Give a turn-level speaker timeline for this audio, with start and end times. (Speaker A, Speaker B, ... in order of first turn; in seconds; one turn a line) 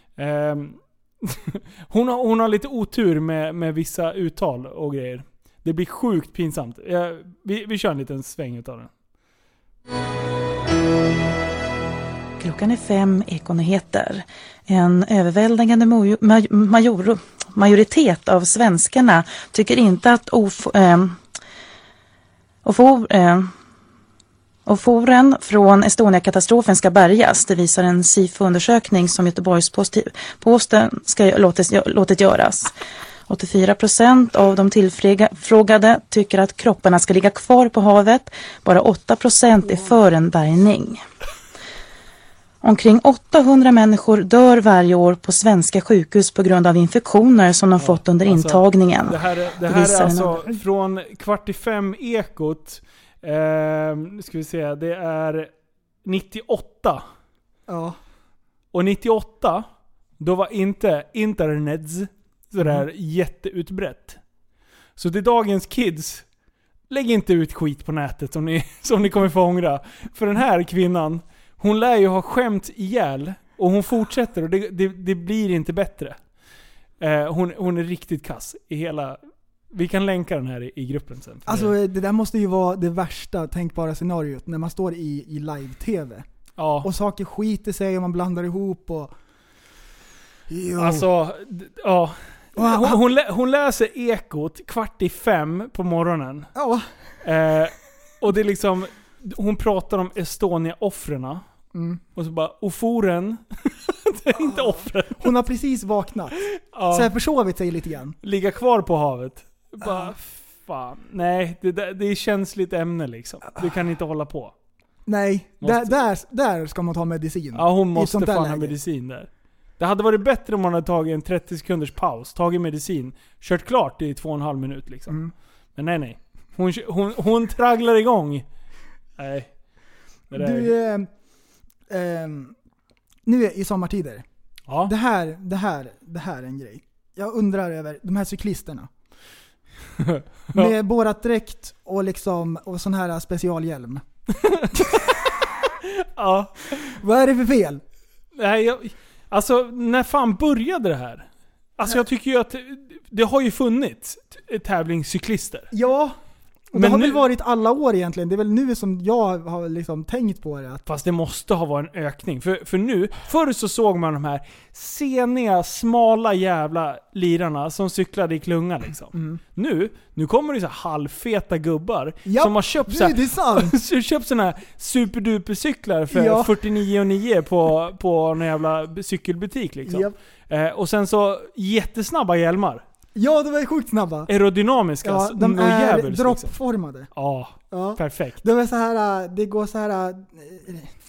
Speaker A: 0.2-8.9
Speaker B: 12.4-21.2
Speaker B: 22.6-23.5
Speaker B: 24.6-32.7
Speaker B: 33.3-41.0
Speaker B: 42.6-50.5
Speaker A: 47.8-55.5
Speaker A: 56.0-57.0
Speaker C: 57.7-58.0
Speaker A: 58.7-59.6
Speaker A: 60.2-64.2
Speaker A: 65.0-66.2
Speaker A: 66.9-76.2
Speaker A: 77.0-79.2
Speaker A: 79.7-81.7
Speaker C: 81.5-86.2
Speaker A: 86.6-86.9
Speaker C: 86.8-89.1
Speaker C: 90.5-91.1
Speaker A: 90.8-96.5
Speaker C: 92.5-93.0
Speaker C: 96.5-96.8
Speaker A: 97.2-101.4
Speaker C: 101.7-102.0
Speaker A: 102.2-105.3
Speaker C: 104.4-106.4
Speaker A: 106.5-107.1
Speaker C: 106.9-108.2
Speaker A: 108.2-114.5
Speaker C: 109.8-110.1
Speaker C: 115.0-118.7
Speaker A: 115.6-115.9
Speaker A: 117.5-125.2
Speaker A: 125.8-128.4
Speaker A: 129.2-129.5
Speaker A: 130.3-130.7
Speaker C: 130.3-131.1
Speaker C: 131.9-132.5
Speaker C: 133.2-134.2
Speaker C: 134.8-138.9
Speaker A: 140.0-140.7
Speaker C: 140.5-144.0
Speaker A: 144.3-145.2
Speaker C: 144.7-145.2
Speaker A: 145.8-146.9
Speaker C: 146.8-147.8
Speaker A: 148.3-155.7
Speaker C: 155.7-156.2
Speaker C: 156.7-160.8
Speaker A: 156.7-157.2
Speaker A: 160.8-182.8
Speaker C: 169.1-169.4
Speaker C: 172.2-173.8
Speaker C: 176.1-176.6
Speaker C: 179.8-180.1
Speaker C: 183.1-184.3
Speaker A: 184.3-186.5
Speaker C: 185.0-187.1
Speaker A: 187.1-188.4
Speaker C: 187.7-190.9